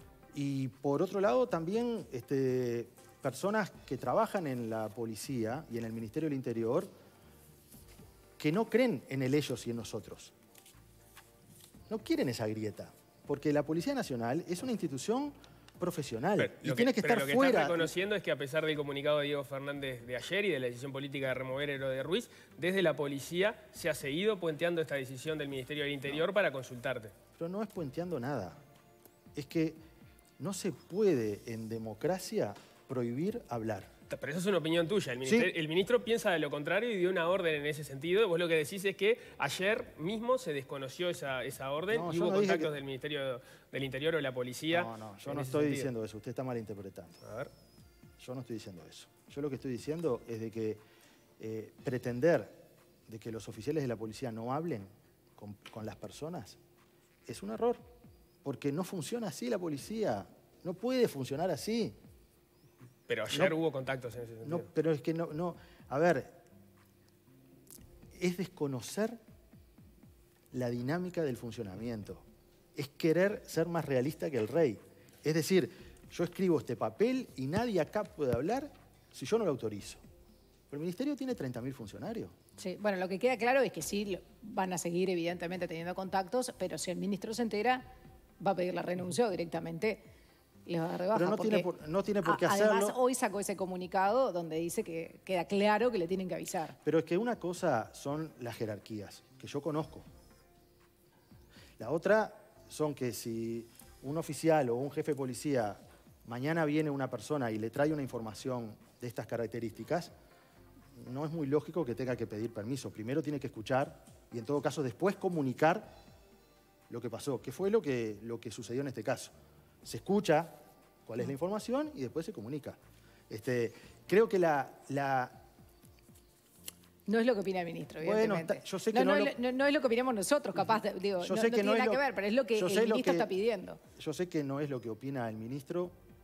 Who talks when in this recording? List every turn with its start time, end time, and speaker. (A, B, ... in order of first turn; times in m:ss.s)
0:00.3-0:06.9 A
0:08.4-0:10.3 A
0:11.9-0:17.9 A
0:16.4-0:27.1 B
0:27.4-0:28.6 A
0:29.4-0:29.8 A
0:30.4-0:33.9 A
0:34.1-0:45.9 B
0:35.2-0:35.5 A
0:41.9-0:42.7 A
0:44.7-0:47.2 A
0:47.2-0:47.5 B
0:48.2-0:50.8 A
0:51.4-0:56.6 A
0:57.3-0:57.9 A
0:58.4-1:02.0 A
1:03.1-1:04.7 B
1:03.3-1:03.6 A
1:04.4-1:06.4 A
1:08.1-1:09.2 A
1:10.5-1:12.2 A
1:12.8-1:20.0 A
1:20.7-1:22.4 A
1:22.6-1:30.1 C
1:30.7-1:31.7 C
1:31.1-1:33.0 A
1:32.2-1:36.8 C
1:36.8-1:40.1 A
1:41.8-1:50.1 A
1:51.0-1:56.0 A
1:56.9-2:05.4 A
2:07.1-2:13.8 C
2:08.0-2:09.4 A
2:11.2-2:13.3 A
2:14.0-2:16.0 A